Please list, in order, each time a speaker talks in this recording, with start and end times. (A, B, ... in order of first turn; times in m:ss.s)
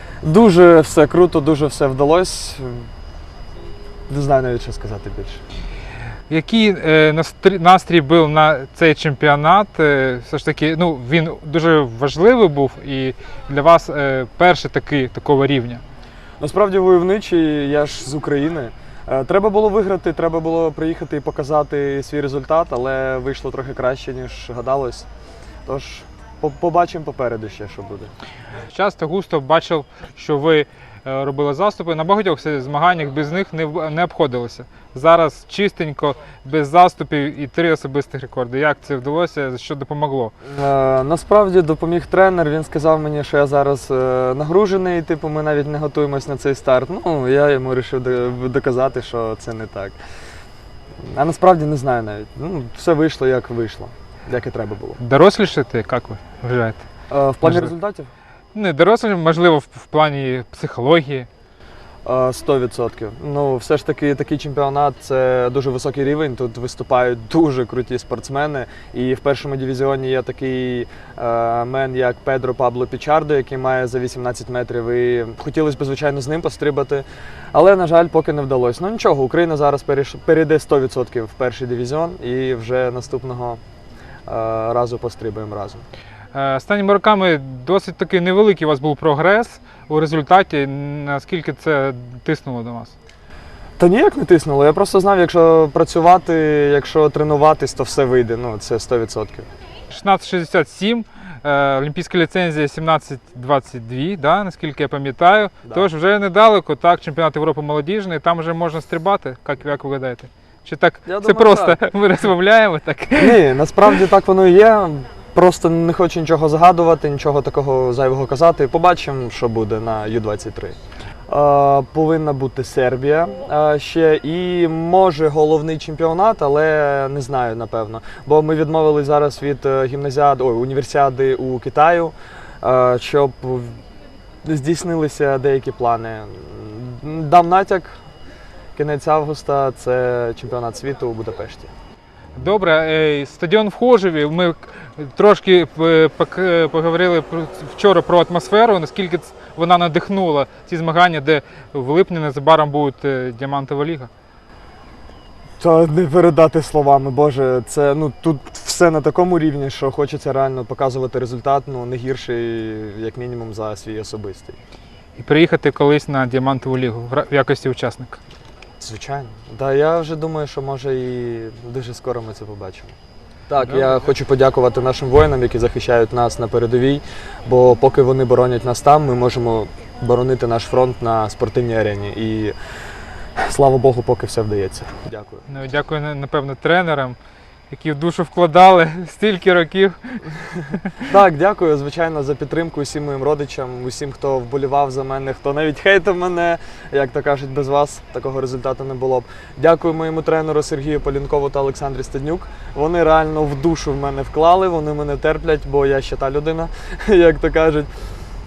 0:00.2-0:02.9 A
0:04.1-0:05.4 A
0:06.3-0:15.8 B
0:16.4-0:25.1 A
0:25.6-0:28.1 A
0:28.7-0:40.3 B
0:40.4-0:50.0 A
0:51.1-0:55.0 A
0:55.0-0:56.8 B
0:57.1-0:58.1 A
0:57.4-0:57.7 B
0:58.5-1:01.3 B
1:02.0-1:23.6 A
1:24.3-1:25.8 A
1:26.3-1:33.0 B
1:33.8-1:39.5 A
1:39.9-1:53.4 B
1:51.0-1:51.8 A
1:53.2-2:00.8 A
2:01.3-2:13.8 A
2:14.4-2:17.9 A
2:18.8-2:21.7 A
2:22.4-2:34.1 B
2:35.6-2:44.6 A
2:45.2-2:48.2 B
2:48.8-2:53.0 A
2:53.5-3:02.5 A
3:03.4-3:05.4 A
3:05.5-3:07.2 B
3:07.7-3:11.0 B
3:11.0-3:27.9 A